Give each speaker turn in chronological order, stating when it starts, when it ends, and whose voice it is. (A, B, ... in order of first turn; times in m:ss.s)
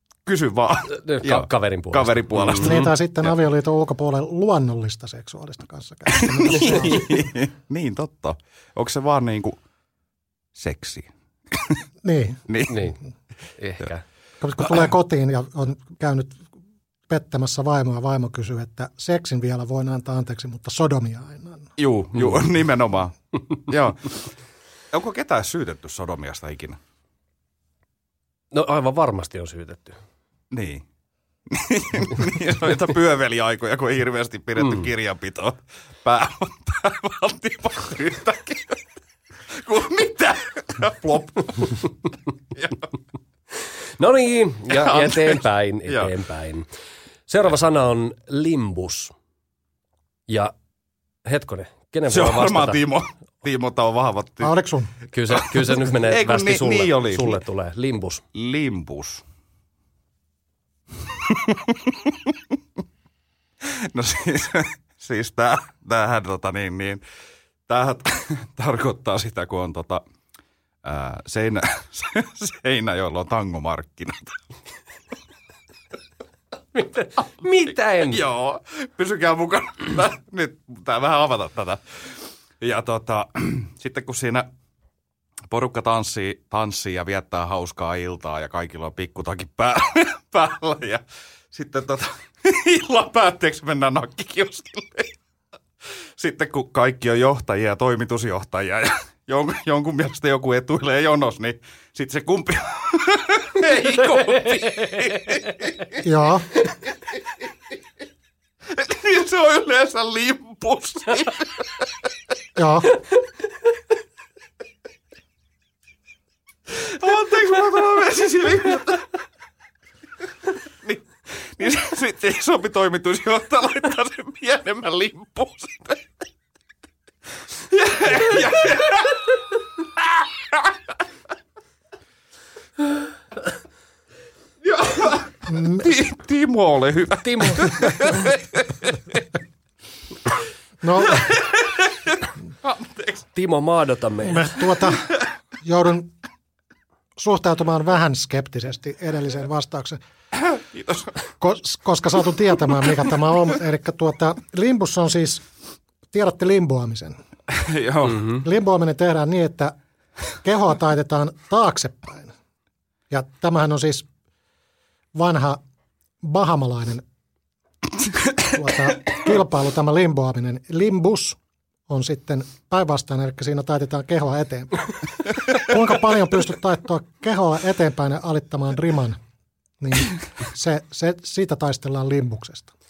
0:00.2-0:02.9 A
0:00.9-0:02.9 B
0:02.5-0:07.1 C
0:06.2-0:09.6 A
0:10.6-0:11.8 A
0:12.0-0:12.4 C
0:12.5-0:12.9 A
0:12.7-0:13.0 B
0:13.6-0:14.0 B
0:14.4-0:16.4 C
0:17.1-0:21.7 C
0:21.8-0:24.2 A
0:24.9-0:26.8 A
0:28.5-0:30.0 B
0:30.5-0:30.8 A
0:31.5-0:38.8 A
0:39.6-0:42.0 A
0:42.5-0:42.9 A
0:44.0-0:46.6 B
0:44.7-0:46.1 A
0:47.3-0:49.1 B
0:50.3-0:50.5 B
0:51.2-0:52.8 B
0:52.1-0:54.5 A
0:54.4-0:54.9 C
0:55.1-0:58.2 B
0:55.3-0:57.4 A
0:58.3-0:59.2 A
1:01.3-1:02.1 A
1:03.7-1:07.0 A
1:07.7-1:10.0 A
1:10.8-1:14.4 A
1:16.7-1:18.2 B
1:17.9-1:21.8 A
1:22.6-1:24.5 A
1:25.5-1:31.0 A
1:31.5-1:35.2 A
1:36.2-1:46.0 A
1:46.0-1:46.5 C
1:48.7-1:51.6 A
1:52.6-1:53.0 C
1:56.8-1:59.1 A
2:01.6-2:06.0 A
2:07.7-2:09.2 A
2:10.0-2:10.6 A
2:14.6-2:19.1 A
2:15.5-2:15.9 C
2:20.8-2:21.4 C
2:21.1-2:22.1 A
2:22.6-2:23.2 A
2:23.3-2:24.5 B
2:24.2-2:25.1 C
2:25.6-2:26.1 C
2:27.2-2:30.0 C
2:30.3-2:31.2 A
2:31.4-2:35.4 C
2:36.1-2:37.2 C
2:37.5-2:38.4 A
2:38.3-2:39.7 C
2:40.4-2:42.3 C
2:43.1-2:44.0 C
2:45.2-2:45.6 C
2:46.2-2:47.0 C
2:48.5-2:51.4 C
2:51.9-2:54.9 C
2:55.5-2:59.2 C
2:59.8-3:02.7 C